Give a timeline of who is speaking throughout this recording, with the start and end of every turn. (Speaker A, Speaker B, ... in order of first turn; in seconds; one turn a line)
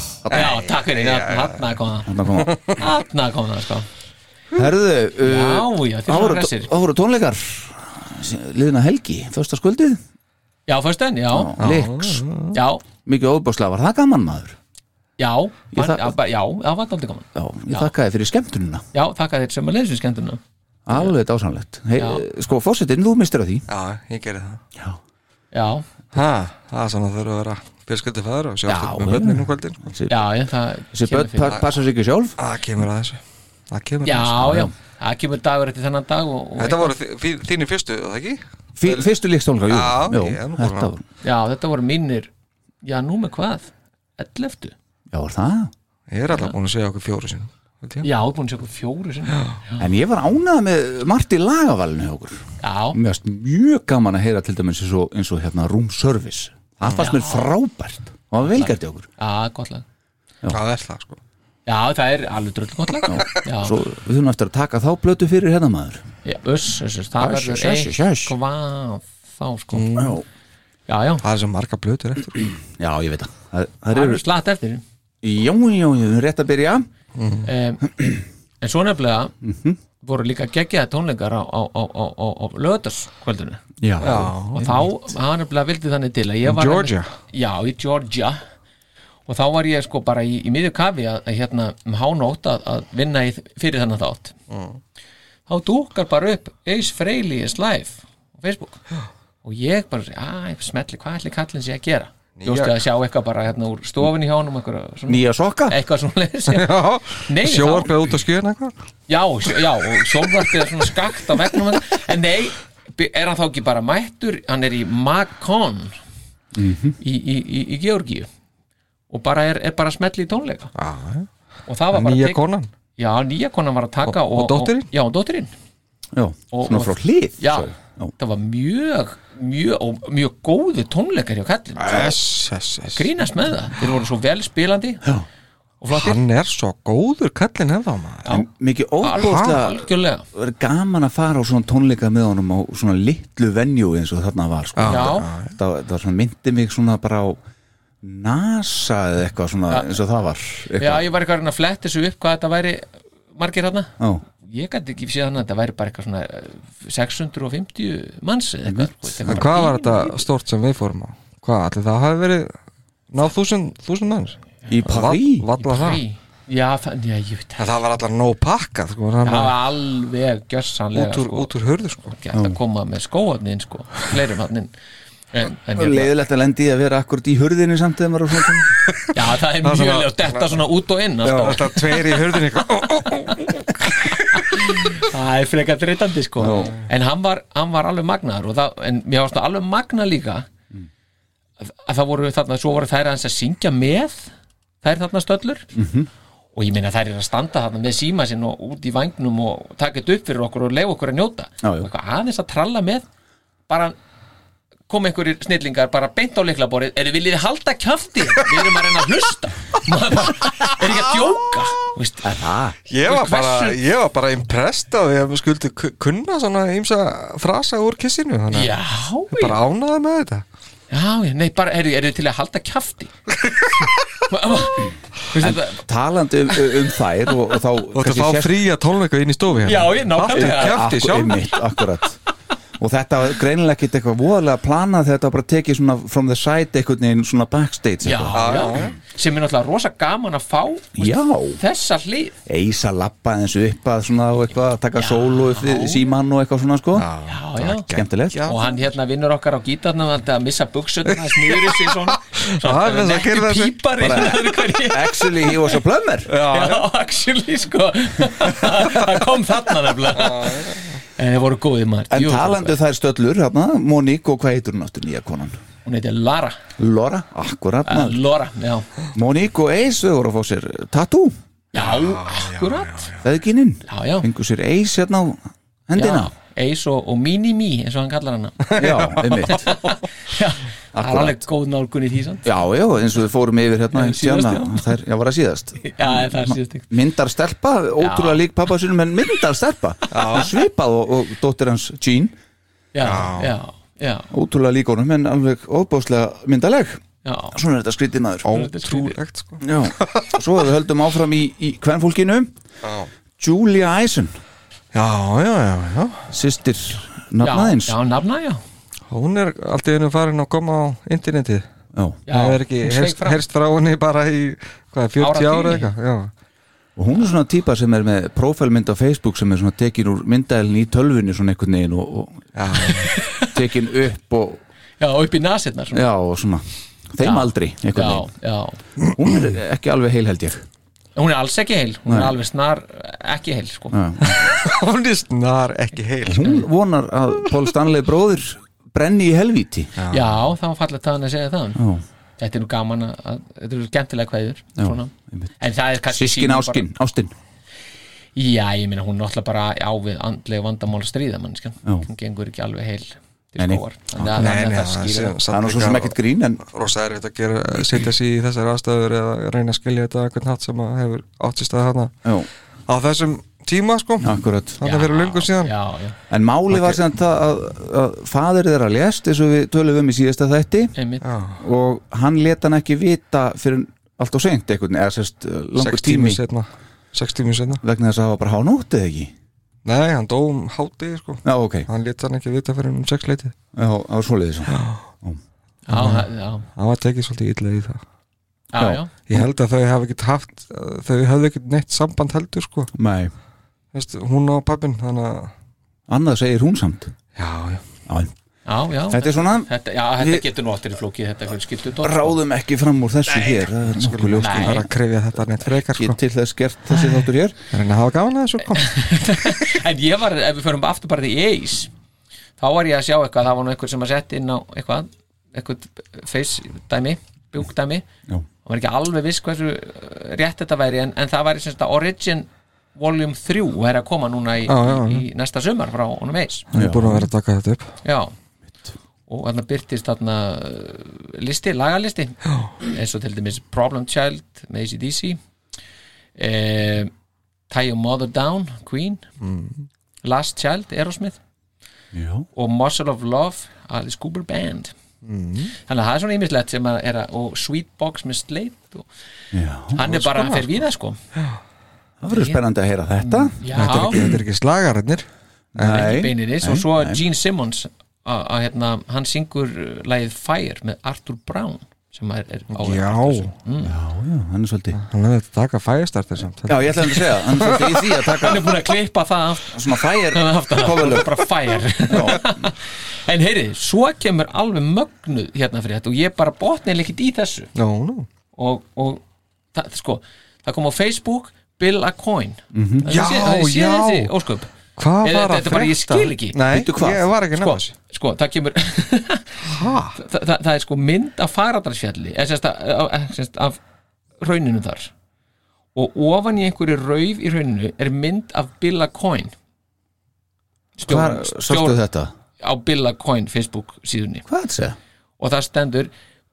Speaker A: 0.2-0.5
Speaker B: 0.3-1.7
Speaker C: 0.3-3.9
Speaker A: 2.1-2.6
Speaker B: 2.4-2.8
Speaker A: 4.5-10.0
Speaker C: 5.2-6.7
Speaker C: 10.7-11.6
Speaker A: 11.3-12.3
Speaker B: 11.6-12.6
Speaker C: 12.5-12.8
Speaker A: 13.1-14.6
Speaker C: 15.2-17.9
Speaker A: 15.7-16.2
Speaker A: 17.4-18.8
Speaker C: 18.9-21.1
Speaker A: 20.9-23.7
Speaker C: 22.0-22.2
Speaker B: 23.7-24.6
Speaker C: 25.5-25.9
Speaker B: 26.1-29.8
Speaker A: 28.7-30.3
Speaker C: 30.1-31.6
Speaker A: 30.9-32.4
Speaker B: 32.4-34.7
Speaker C: 34.0-36.9
Speaker A: 34.4-34.7
Speaker B: 36.6-39.1
Speaker A: 38.8-41.0
Speaker B: 39.7-40.9
Speaker C: 41.2-42.3
Speaker C: 42.8-44.8
Speaker A: 45.1-45.7
Speaker B: 46.1-48.1
Speaker C: 48.0-49.9
Speaker B: 49.3-49.6
Speaker A: 49.8-52.4
Speaker C: 52.6-53.0
Speaker A: 52.9-59.1
Speaker C: 56.9-57.5
Speaker C: 58.5-59.9
Speaker B: 60.5-61.2
Speaker C: 61.7-63.8
Speaker A: 63.1-66.0
Speaker C: 66.2-70.1
Speaker A: 67.2-68.3
Speaker B: 69.8-70.2
Speaker A: 70.0-70.2
Speaker C: 70.9-71.2
Speaker B: 71.2-72.5
Speaker A: 72.8-74.2
Speaker C: 73.9-74.8
Speaker A: 75.2-76.9
Speaker B: 77.2-77.5
Speaker C: 77.5-77.9
Speaker C: 78.6-79.3
Speaker A: 79.4-79.8
Speaker C: 80.0-83.6
Speaker A: 83.8-84.3
Speaker B: 84.0-84.9
Speaker C: 84.5-88.4
Speaker B: 86.5-87.1
Speaker C: 89.3-94.4
Speaker B: 94.5-94.8
Speaker C: 95.5-98.8
Speaker C: 99.4-108.0
Speaker B: 102.4-102.8
Speaker A: 105.1-105.8
Speaker B: 106.5-108.7
Speaker C: 109.1-116.0
Speaker A: 116.5-117.0
Speaker C: 117.0-118.3
Speaker C: 119.1-120.7
Speaker B: 120.8-121.3
Speaker C: 121.7-122.4
Speaker B: 121.9-122.7
Speaker C: 123.0-125.5
Speaker B: 124.1-124.9
Speaker A: 126.1-128.1
Speaker C: 126.5-132.2
Speaker B: 131.8-133.1
Speaker C: 132.9-135.0
Speaker C: 135.8-136.2
Speaker B: 135.9-138.3
Speaker A: 138.3-147.4
Speaker C: 139.0-140.2
Speaker B: 139.2-139.6
Speaker B: 144.8-145.6
Speaker C: 144.9-145.3
Speaker A: 148.0-151.1
Speaker C: 149.7-150.0
Speaker C: 150.8-160.1
Speaker A: 158.7-159.5
Speaker B: 159.3-162.5
Speaker B: 163.1-166.0
Speaker A: 164.7-165.5
Speaker C: 165.6-167.6
Speaker B: 167.6-169.6
Speaker C: 169.2-171.5
Speaker B: 170.9-172.2
Speaker C: 172.0-174.7
Speaker C: 175.3-176.1
Speaker A: 175.7-178.7
Speaker C: 179.1-182.0
Speaker B: 179.6-180.6
Speaker B: 181.2-184.6
Speaker C: 184.3-190.5
Speaker A: 186.4-186.8
Speaker C: 191.6-194.3
Speaker C: 194.8-195.7
Speaker A: 195.8-196.1
Speaker C: 196.6-203.1
Speaker A: 201.6-201.9
Speaker C: 203.7-204.0
Speaker C: 204.9-212.3
Speaker B: 210.2-210.9
Speaker A: 212.2-212.8
Speaker B: 212.9-220.4
Speaker C: 213.1-213.8
Speaker C: 218.5-219.6
Speaker C: 220.9-223.1
Speaker C: 224.3-225.8
Speaker A: 225.4-228.6
Speaker B: 227.9-231.5
Speaker C: 229.6-230.9
Speaker A: 230.3-232.2
Speaker A: 232.8-238.8
Speaker C: 238.0-242.3
Speaker B: 238.3-238.9
Speaker A: 241.0-241.6
Speaker A: 242.5-247.1
Speaker C: 245.0-246.0
Speaker B: 246.9-248.8
Speaker C: 247.3-247.9
Speaker A: 247.9-248.4
Speaker C: 248.4-255.7
Speaker B: 251.1-254.3
Speaker A: 254.0-256.3
Speaker B: 256.3-256.9
Speaker C: 256.5-262.8
Speaker B: 260.1-261.0
Speaker A: 262.1-265.6
Speaker C: 265.9-266.6
Speaker A: 266.8-268.2
Speaker C: 267.9-268.9
Speaker A: 269.1-271.4
Speaker C: 271.7-273.1
Speaker B: 271.8-273.2
Speaker A: 273.2-276.3
Speaker C: 273.9-274.3
Speaker C: 276.0-278.8
Speaker B: 278.7-279.7
Speaker A: 278.8-279.7
Speaker C: 279.5-282.5
Speaker A: 280.9-281.4
Speaker A: 282.4-292.4
Speaker C: 283.9-284.9
Speaker C: 285.8-286.9
Speaker C: 288.0-288.4
Speaker B: 290.1-290.5
Speaker C: 292.9-294.3
Speaker B: 293.0-293.6
Speaker A: 294.3-297.0
Speaker C: 297.2-297.6
Speaker A: 297.5-298.5
Speaker B: 298.5-300.4
Speaker C: 298.5-299.2
Speaker A: 299.6-302.5
Speaker B: 302.8-303.1
Speaker A: 303.4-304.4
Speaker B: 304.9-306.3
Speaker A: 306.3-308.0
Speaker C: 307.4-308.6
Speaker B: 309.1-311.6
Speaker A: 311.9-312.2
Speaker C: 312.3-313.4
Speaker B: 312.3-316.3
Speaker C: 315.2-315.9
Speaker A: 317.0-322.4
Speaker B: 322.6-323.1
Speaker C: 322.8-323.5
Speaker A: 323.5-324.6
Speaker C: 325.0-326.0
Speaker A: 325.9-328.3
Speaker C: 327.2-328.8
Speaker A: 329.1-330.6
Speaker C: 331.2-334.0
Speaker A: 332.1-332.3
Speaker A: 333.9-334.4
Speaker B: 334.2-336.7
Speaker A: 336.2-339.9
Speaker B: 340.0-340.4
Speaker C: 340.1-341.8
Speaker A: 341.8-342.0
Speaker C: 342.4-346.9
Speaker A: 344.8-345.5
Speaker A: 346.1-347.3
Speaker C: 348.4-355.4
Speaker A: 353.6-354.4
Speaker B: 354.4-362.1
Speaker A: 355.5-356.6
Speaker B: 362.9-365.7
Speaker A: 364.2-364.8
Speaker C: 364.8-366.2
Speaker A: 366.3-370.9
Speaker B: 366.7-367.0
Speaker C: 371.0-371.2
Speaker B: 371.2-371.6
Speaker A: 371.6-376.4
Speaker B: 375.8-377.8
Speaker A: 377.8-379.3
Speaker B: 379.9-383.6
Speaker A: 381.4-381.9
Speaker A: 383.8-385.4
Speaker B: 384.7-385.0
Speaker C: 385.9-386.7
Speaker B: 385.9-388.0
Speaker C: 388.7-389.1
Speaker A: 388.8-389.5
Speaker B: 389.3-392.9
Speaker A: 392.9-393.3
Speaker B: 393.9-395.5
Speaker A: 396.1-397.1
Speaker B: 397.4-397.8
Speaker A: 398.1-398.3
Speaker C: 398.7-402.4
Speaker A: 399.1-400.4
Speaker A: 402.0-404.9
Speaker B: 403.4-406.2
Speaker C: 404.4-404.8
Speaker A: 405.7-407.6
Speaker B: 407.7-409.1
Speaker C: 408.8-411.9
Speaker C: 412.6-418.1
Speaker C: 418.6-426.7
Speaker B: 424.7-425.2
Speaker B: 426.7-427.9
Speaker A: 426.7-427.3
Speaker C: 428.1-428.3
Speaker C: 429.3-435.4
Speaker C: 436.4-437.1
Speaker C: 437.7-439.2
Speaker B: 439.4-439.9
Speaker C: 440.2-441.4
Speaker A: 442.1-442.5
Speaker C: 442.6-444.9
Speaker B: 445.2-445.8
Speaker C: 445.9-449.1
Speaker A: 449.5-450.1
Speaker C: 449.9-451.2
Speaker B: 450.1-450.7
Speaker A: 452.2-454.4
Speaker C: 452.3-452.6
Speaker C: 453.2-454.2
Speaker B: 453.7-455.3
Speaker A: 455.8-457.2
Speaker B: 455.8-456.1
Speaker C: 455.8-463.9
Speaker B: 462.7-463.5
Speaker A: 463.9-465.0
Speaker B: 464.9-468.1
Speaker A: 466.6-468.8
Speaker C: 468.4-477.7
Speaker A: 469.7-471.4
Speaker A: 472.1-472.7
Speaker B: 477.8-478.3
Speaker C: 478.6-479.2
Speaker C: 479.7-484.7
Speaker A: 482.7-483.1
Speaker B: 483.1-484.3
Speaker B: 485.0-487.9
Speaker C: 485.2-486.6
Speaker A: 486.7-487.3
Speaker C: 487.5-493.8
Speaker B: 489.7-490.2
Speaker C: 494.4-495.1
Speaker C: 495.9-499.5
Speaker C: 501.0-502.0
Speaker A: 501.1-502.3
Speaker C: 502.6-504.5
Speaker A: 504.5-505.0
Speaker C: 505.4-506.1